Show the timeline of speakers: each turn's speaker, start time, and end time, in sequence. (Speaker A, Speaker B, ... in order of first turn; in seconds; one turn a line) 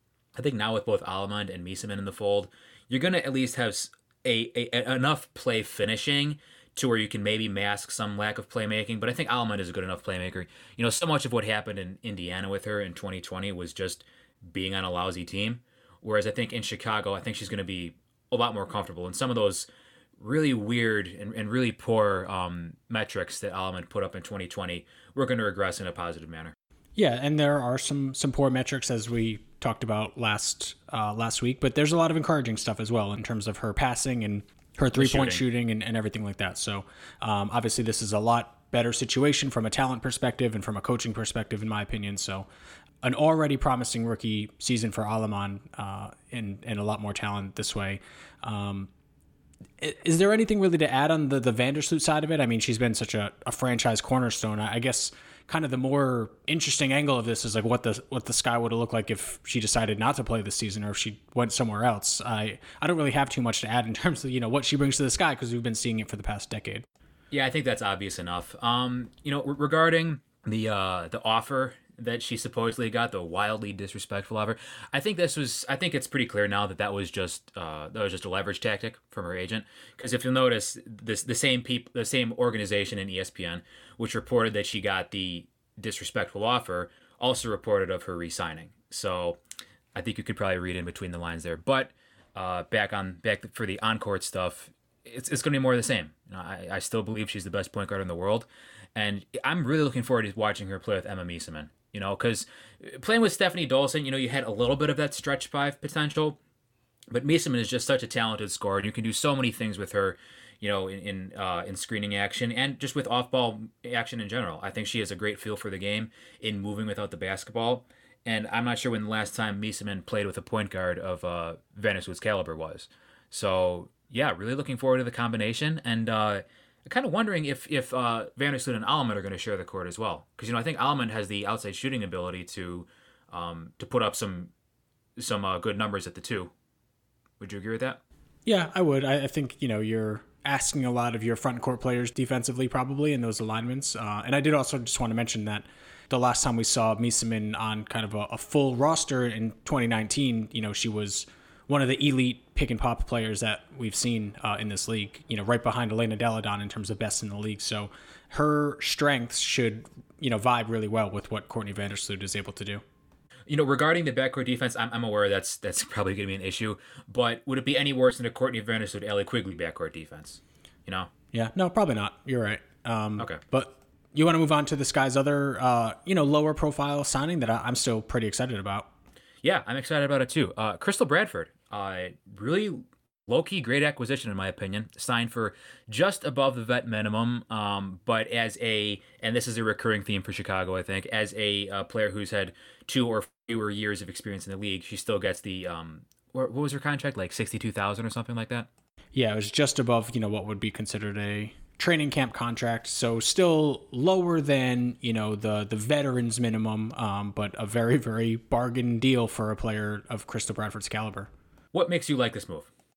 Speaker A: 0.4-26.6
Speaker B: 26.9-42.5
Speaker A: 34.9-35.4
Speaker B: 43.0-48.9
Speaker B: 49.8-66.9
Speaker A: 67.3-89.4
Speaker A: 89.9-106.4
Speaker A: 107.1-134.5
Speaker A: 135.2-136.5
Speaker A: 137.4-138.0
Speaker B: 138.5-162.8
Speaker A: 163.5-171.1
Speaker B: 171.3-178.9
Speaker A: 179.4-198.7
Speaker B: 199.1-211.3
Speaker A: 211.7-212.7